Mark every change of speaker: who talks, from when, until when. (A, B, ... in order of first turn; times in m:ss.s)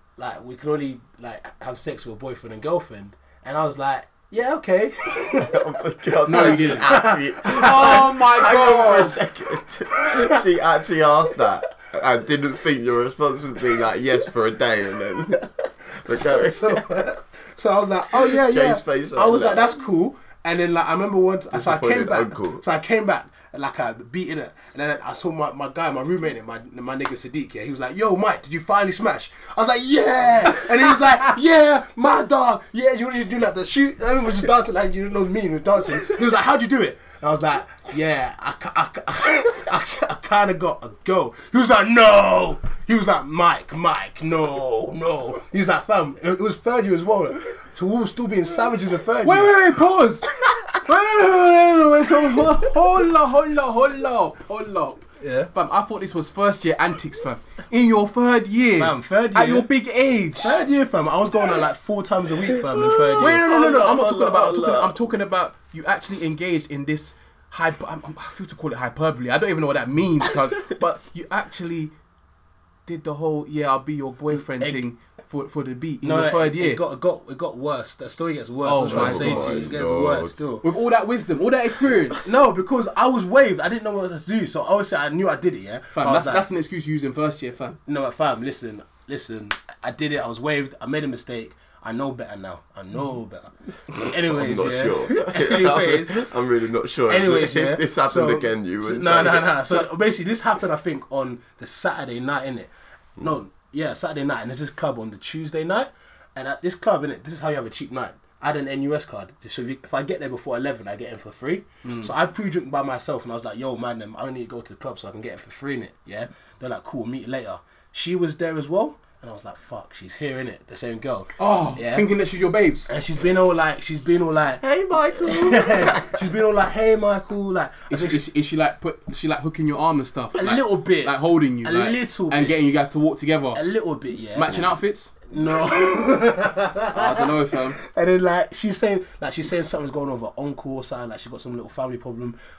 0:00.2-0:05.6 A
0:05.4-0:16.8 B
0:06.2-0:09.1 A
0:06.2-0:09.3 C
0:09.9-0:10.4 A
0:16.0-0:49.5 A
0:18.2-0:19.7 B
0:21.5-0:22.6 B
0:49.2-0:50.3 C
0:50.8-0:55.0 C
0:51.8-0:52.8 A
0:55.2-0:55.5 A
0:55.5-1:00.6 C
0:58.8-0:59.7 A
1:00.4-1:03.4 A
1:02.5-1:05.0 B
1:03.2-1:11.9 C
1:12.8-1:16.8 C
1:14.5-1:14.8 A
1:16.0-1:20.6 A
1:18.6-1:19.7 C
1:18.8-1:20.4 B
1:20.6-1:22.4 C
1:22.2-1:26.4 A
1:25.9-1:27.8 C
1:27.8-1:36.3 A
1:34.0-1:39.6 B
1:37.1-2:02.1 A
1:51.8-1:52.1 C
2:01.4-2:02.9 C
2:02.9-2:08.2 A
2:04.6-2:06.2 B
2:07.9-2:13.6 C
2:10.3-2:12.6 A
2:13.5-2:14.6 A
2:14.3-2:15.1 C
2:15.3-2:22.4 A
2:16.9-2:17.8 C